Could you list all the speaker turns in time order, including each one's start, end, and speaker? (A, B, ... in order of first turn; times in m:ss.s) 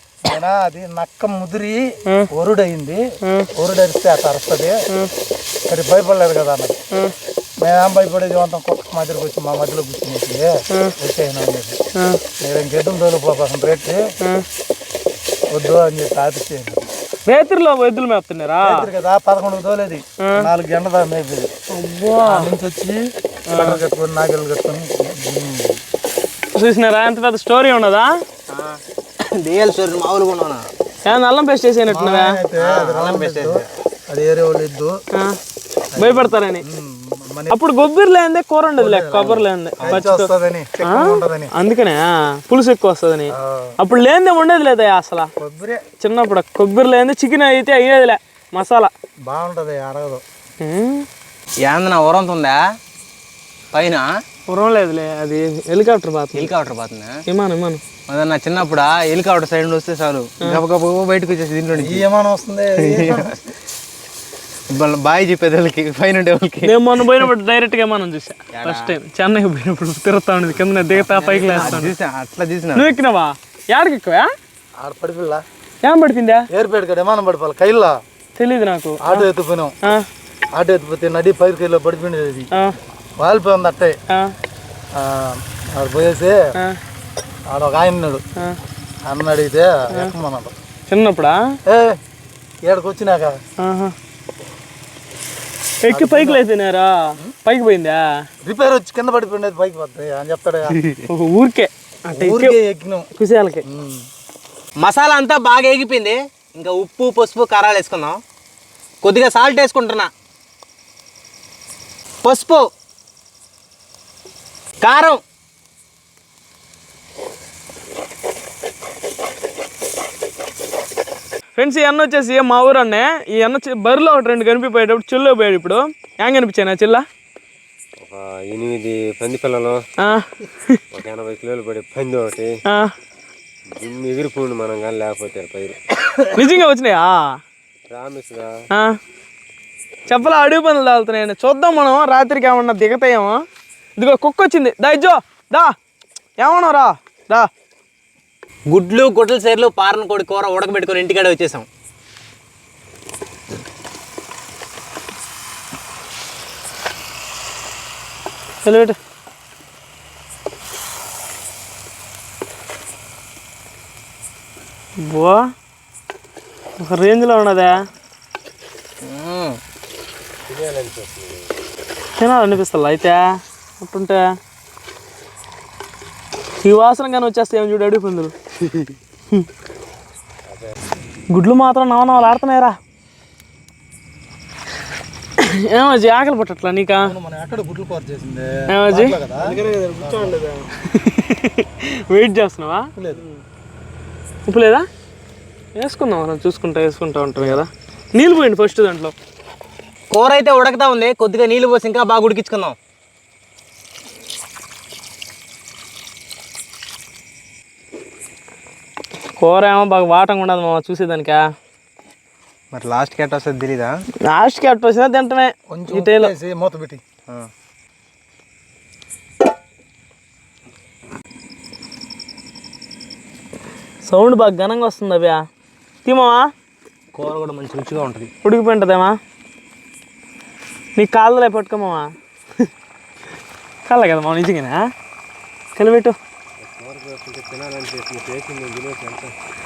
0:00.2-0:03.0 A
0:03.5-0:04.8 A
0:05.7-0:06.8 A
0:07.6-0:11.8 A
0:12.4-0:14.1 A
0:15.5-0:16.9 A
0:17.3-0:18.9 B
0:18.6-0:21.5 A
0:20.2-0:20.5 B
0:21.7-0:22.5 B
0:22.2-0:25.8 A
0:23.5-0:23.8 B
0:26.5-0:28.2 B
0:28.5-0:30.6 C
0:31.0-0:32.4 B
0:31.9-0:35.0 A
0:32.6-0:33.6 C
0:35.9-0:37.6 A
0:36.0-0:36.6 B
0:37.5-0:40.3 B
0:38.8-0:41.5 A
0:40.8-0:45.3 B
0:43.3-0:43.8 A
0:45.4-0:45.8 A
0:46.0-0:48.9 B
0:49.2-0:50.2 A
0:50.6-0:51.0 B
0:51.6-0:52.6 C
0:53.7-0:54.1 C
0:54.5-0:56.5 B
0:56.3-0:57.2 C
0:57.3-0:57.8 B
0:58.1-1:02.0 C
1:01.8-1:03.5 A
1:02.8-1:03.3 C
1:04.7-1:07.2 C
1:06.6-1:11.9 B
1:08.5-1:08.9 C
1:11.1-1:12.9 C
1:12.7-1:14.3 B
1:14.8-1:15.4 A
1:15.8-1:16.5 B
1:16.5-1:18.0 A
1:18.4-1:19.2 B
1:19.0-1:19.8 A
1:20.5-1:22.5 A
1:23.2-1:24.0 A
1:24.9-1:26.5 A
1:27.5-1:28.2 A
1:29.0-1:30.5 A
1:30.9-1:31.5 B
1:31.6-1:32.0 A
1:32.6-1:33.4 A
1:33.6-1:33.9 B
1:35.8-1:38.2 B
1:35.9-1:36.4 A
1:38.4-1:40.8 A
1:40.8-1:41.0 C
1:41.1-1:42.6 B
1:42.1-1:43.1 A
1:43.2-1:43.6 B
1:43.6-1:44.0 A
1:44.8-1:48.2 C
1:49.0-1:50.1 C
1:52.2-1:52.6 C
1:54.8-1:55.2 C
2:01.6-2:07.0 B
2:08.0-2:09.8 D
2:10.0-2:10.8 B
2:10.9-2:12.5 D
2:13.7-2:15.8 D
2:16.3-2:17.4 B
2:17.9-2:18.5 D
2:20.1-2:23.4 B
2:24.0-2:25.7 B
2:26.4-2:27.5 B
2:28.7-2:31.7 C
2:38.6-2:39.0 B
2:45.0-2:45.5 B
2:46.8-2:47.8 B
2:49.0-2:49.6 C
2:50.5-2:51.5 D
2:52.2-2:54.2 B
2:56.6-2:58.3 B
3:01.3-3:02.8 B
3:05.4-3:07.1 B
3:07.0-3:10.4 A
3:08.7-3:09.1 B
3:09.4-3:10.5 C
3:10.8-3:12.9 B
3:13.0-3:13.2 A
3:14.4-3:14.9 B
3:15.8-3:19.1 B
3:20.1-3:22.8 C
3:29.4-3:31.4 B
3:32.7-3:33.9 C
3:34.2-3:36.3 B
3:35.7-3:37.0 A
3:44.0-3:45.4 B
3:46.0-3:46.5 B
3:47.1-3:48.3 C
3:48.4-3:49.2 B
3:51.0-3:52.1 B
3:53.9-3:54.8 B
3:55.8-3:56.2 B
3:56.6-3:59.3 D